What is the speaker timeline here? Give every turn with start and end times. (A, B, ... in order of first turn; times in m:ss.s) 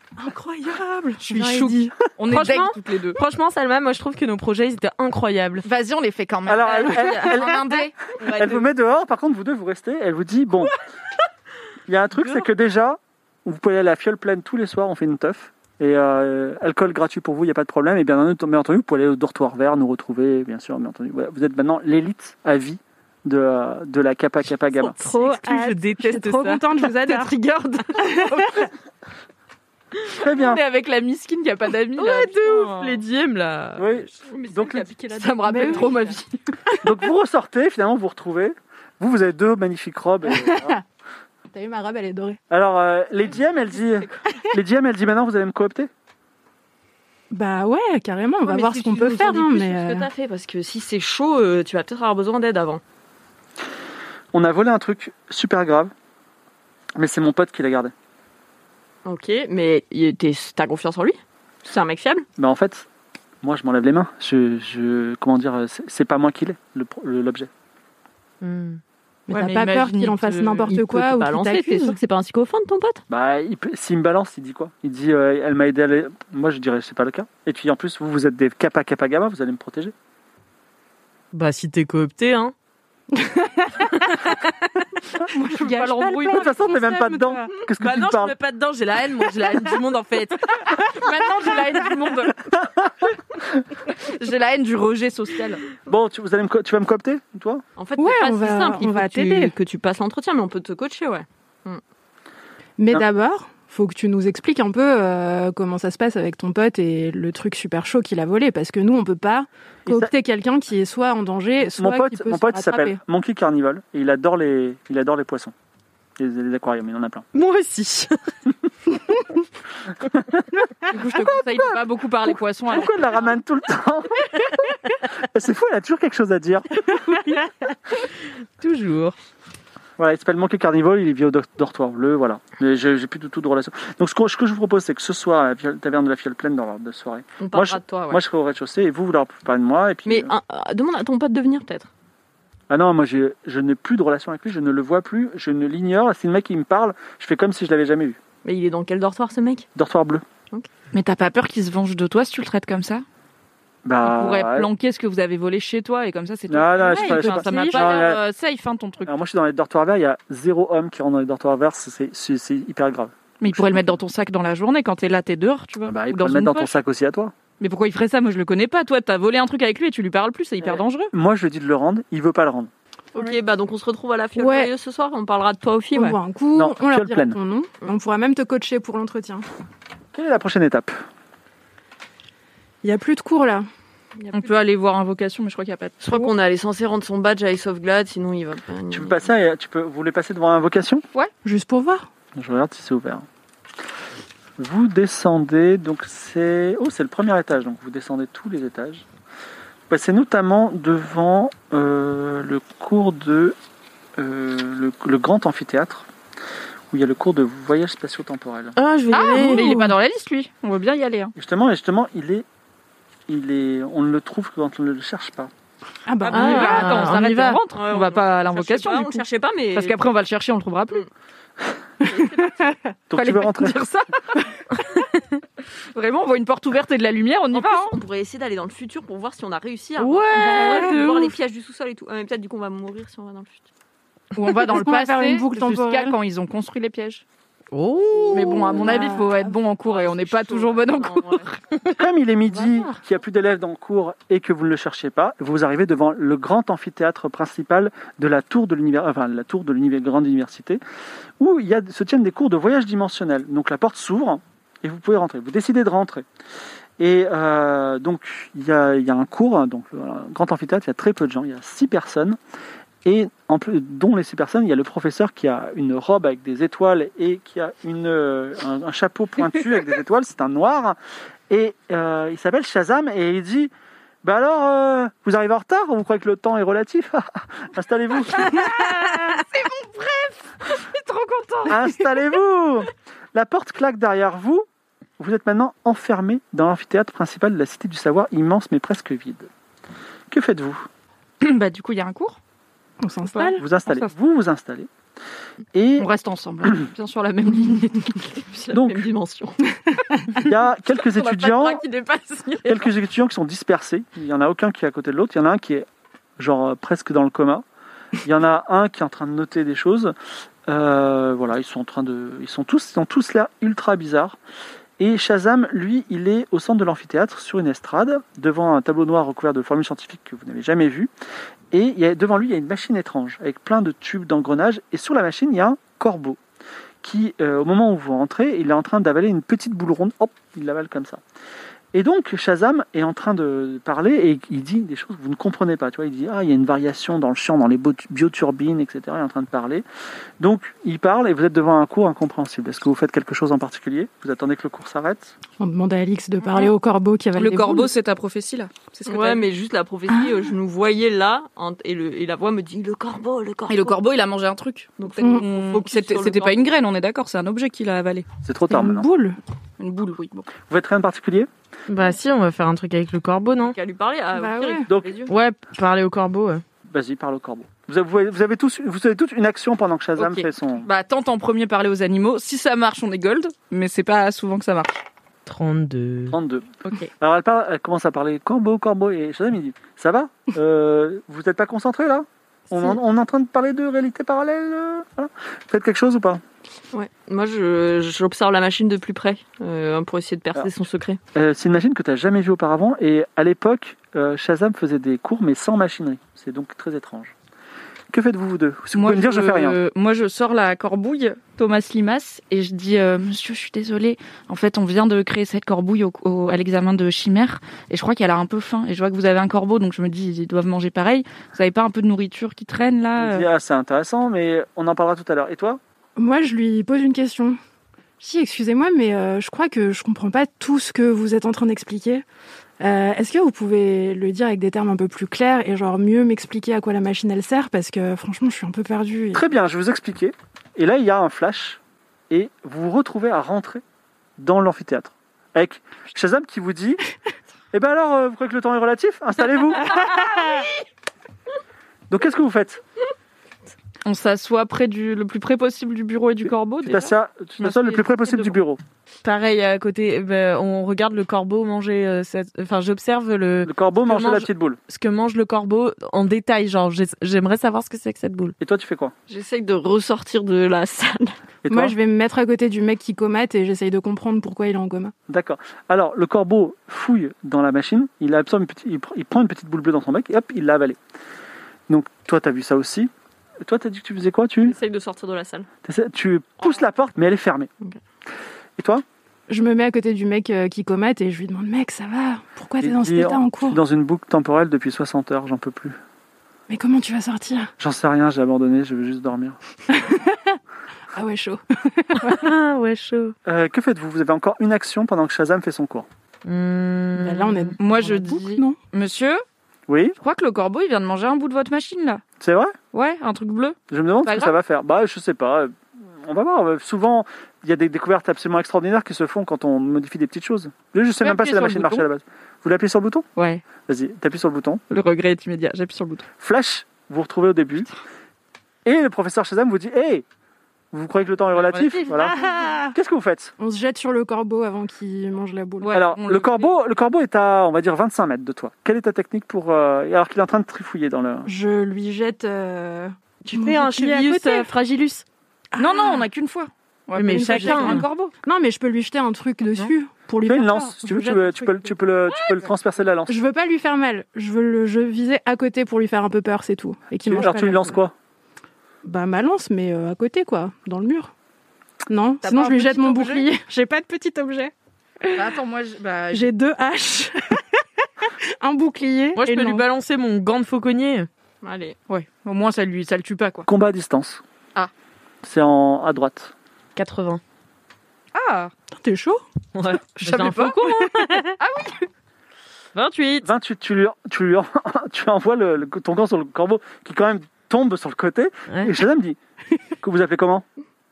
0:00.1-0:01.9 A
0:01.2-0:03.2 B
0:02.3-0:05.6 C
0:05.6-0:08.2 B
0:06.5-0:07.5 D
0:06.9-0:07.6 C
0:08.2-0:08.6 C
0:08.3-0:10.7 D
0:11.9-0:25.0 D
0:24.8-0:28.6 C
0:25.0-0:28.7 A
0:30.2-0:30.6 D
0:30.2-0:33.0 B
0:32.0-0:34.0 C
0:33.8-0:34.9 D
0:34.2-0:36.2 E
0:35.1-0:36.4 B
0:35.4-0:35.9 A
0:36.8-0:40.8 D
0:40.3-0:40.8 A
0:41.5-0:42.4 A
0:42.5-0:45.9 D
0:47.3-0:50.1 A
0:48.4-0:52.8 E
0:54.3-0:55.9 D
0:57.0-0:57.9 D
0:59.0-1:02.2 E
1:02.4-1:02.9 D
1:03.4-1:07.5 D
1:08.4-1:08.8 C
1:09.3-1:12.0 A
1:09.3-1:10.7 B
1:10.7-1:13.0 E
1:13.1-1:19.9 D
1:21.3-1:22.5 C
1:23.1-1:24.1 A
1:25.2-1:27.5 A
1:25.5-1:26.6 B
1:26.3-1:28.3 D
1:27.8-1:30.5 C
1:30.7-1:32.4 B
1:33.9-1:35.6 B
1:35.9-1:37.6 D
1:37.8-1:41.8 E
1:38.0-1:39.5 A
1:42.8-1:53.0 A
1:49.8-1:50.1 D
1:51.7-1:55.5 D
1:56.2-1:57.3 D
1:57.3-1:58.1 C
2:00.9-2:03.0 B
2:02.3-2:04.4 D
2:05.2-2:06.6 D
2:08.6-2:09.1 C
2:10.0-2:20.3 D
2:17.4-2:18.2 E
2:20.0-2:21.9 E
2:22.7-2:28.2 D
2:28.4-2:29.7 E
2:29.8-2:30.2 D
2:30.9-2:33.0 B
2:33.8-2:34.7 D
2:34.0-2:39.1 B
2:36.5-2:38.2 D
2:36.8-2:38.0 A
2:39.0-2:43.8 D
2:43.4-2:46.8 B
2:45.8-2:47.3 D
2:47.6-2:51.1 B
2:51.1-2:52.7 D
2:53.1-2:56.2 E
2:54.3-2:54.7 A
2:55.9-2:59.5 A
2:56.5-2:57.4 D
3:00.1-3:01.0 D
3:02.8-3:03.7 A
3:04.3-3:06.3 B
3:06.0-3:09.2 E
3:08.9-3:11.0 D
3:11.4-3:12.1 A
3:12.3-3:13.2 D
3:14.6-3:19.0 D
3:19.9-3:23.6 D
3:24.2-3:26.1 D
3:26.9-3:28.8 D
3:28.8-3:29.9 C
3:29.1-3:31.3 B
3:29.4-3:29.7 A
3:31.4-3:32.4 D
3:33.3-3:35.5 D
3:36.0-3:37.1 A
3:36.2-3:41.0 B
3:36.3-3:40.0 E
3:36.3-3:37.6 C
3:42.0-3:42.7 E
3:43.1-3:43.8 D
3:43.1-3:44.2 B
3:45.9-3:48.0 B
3:47.5-3:53.7 E
3:50.0-3:50.9 C
3:50.4-3:51.1 A
3:50.5-3:51.3 B
3:54.3-3:57.2 B
3:54.6-3:56.1 A
3:57.7-3:58.6 C
3:58.3-4:01.6 B
3:58.4-3:59.3 E
3:58.4-3:59.4 A
3:59.8-4:01.5 E
4:02.0-4:10.8 D
4:11.4-4:16.2 D
4:17.0-4:22.4 D
4:23.0-4:31.0 D
4:31.5-4:33.7 D
4:34.2-4:38.6 D
4:38.4-4:42.2 B
4:41.6-4:44.6 D
4:45.2-4:49.5 D
4:50.3-4:50.8 D
4:51.4-4:52.4 B
4:53.0-4:53.6 A
4:53.3-4:54.1 B
4:53.6-4:54.9 D
4:55.7-4:56.1 D
4:56.0-4:58.4 B
4:58.5-4:59.6 E
4:58.7-4:59.0 D
5:00.4-5:01.8 D
5:02.6-5:05.9 D
5:06.4-5:07.6 D
5:08.2-5:10.1 D
5:10.7-5:14.4 D
5:15.0-5:21.1 D
5:21.7-5:26.4 D
5:27.0-5:31.2 D
5:31.9-5:39.8 D
5:40.4-5:45.3 D
5:45.6-5:47.9 A
5:47.4-5:49.4 B
5:49.1-5:54.0 E
5:50.1-5:50.5 A
5:53.7-5:58.3 B
5:55.0-5:56.6 E
5:58.4-5:59.0 D
5:58.7-5:59.4 A
5:59.8-6:00.5 B
6:00.6-6:01.5 D
6:01.9-6:03.8 C
6:03.6-6:05.3 E
6:04.3-6:04.9 A
6:04.9-6:05.1 D
6:05.3-6:06.6 C
6:06.9-6:10.9 D
6:10.2-6:15.0 B
6:15.4-6:16.4 C
6:16.3-6:26.4 D
6:26.9-6:31.2 E
6:31.3-6:37.3 D
6:38.1-6:39.8 D
6:38.9-6:53.5 B
6:53.2-6:55.8 D
6:56.2-6:57.6 A
6:58.2-7:02.2 A
7:02.8-7:09.4 A
7:09.3-7:13.8 D
7:14.4-7:17.0 D
7:17.7-7:20.0 D
7:22.1-7:22.8 D
7:24.0-7:28.6 B
7:26.8-7:28.8 D
7:29.2-7:38.5 C
7:33.6-7:34.8 D
7:38.6-7:39.1 D
7:39.3-7:41.3 E
7:41.6-7:41.9 D
7:41.7-7:45.1 A
7:45.3-7:51.0 D
7:51.9-7:53.1 D
7:53.6-7:54.8 D
7:54.6-7:55.7 E
7:55.8-7:57.7 D
7:58.8-7:59.0 D
7:59.5-8:03.8 A
8:02.8-8:06.0 D
8:06.7-8:07.7 A
8:07.8-8:09.6 D
8:09.9-8:10.6 A
8:11.1-8:12.5 A
8:12.2-8:13.3 C
8:13.4-8:16.1 D
8:16.4-8:17.7 C
8:17.2-8:18.8 A
8:17.8-8:19.4 B
8:19.9-8:20.2 D
8:20.2-8:22.2 B
8:22.4-8:22.7 D
8:22.9-8:24.5 B
8:23.9-8:33.2 D
8:31.2-8:32.0 B
8:33.4-8:33.6 B
8:33.8-8:34.8 D
8:34.9-8:36.3 B
8:36.4-8:37.9 D
8:38.8-8:40.2 D
8:40.9-8:42.4 D
8:41.5-8:42.1 B
8:42.2-8:42.9 A
8:42.9-8:43.5 D
8:43.6-8:45.9 A
8:45.8-8:46.7 B
8:45.9-8:51.5 D
8:51.4-8:54.7 A
8:53.4-8:55.2 C
8:55.7-8:56.2 A
8:55.8-8:58.3 B
8:57.2-8:58.0 C
8:57.2-9:01.9 A
9:00.4-9:03.4 D
9:02.3-9:02.6 B
9:03.3-9:08.0 A
9:07.2-9:08.1 D
9:09.0-9:11.3 A
9:12.1-9:15.4 A
9:12.4-9:13.5 B
9:15.3-9:16.5 B
9:16.3-9:17.6 A
9:18.3-9:19.8 A
9:19.3-9:21.3 C
9:21.6-9:22.0 E
9:22.1-9:23.7 B
9:23.7-9:24.4 D
9:25.4-9:26.5 D
9:27.0-9:27.4 C
9:28.3-9:28.7 B
9:28.9-9:29.4 A
9:29.7-9:31.6 C
9:30.2-9:31.4 A
9:30.2-9:30.8 B
9:31.6-9:32.0 B
9:32.9-9:33.4 C
9:33.4-9:39.4 D
9:38.7-9:38.9 C
9:40.0-9:40.6 D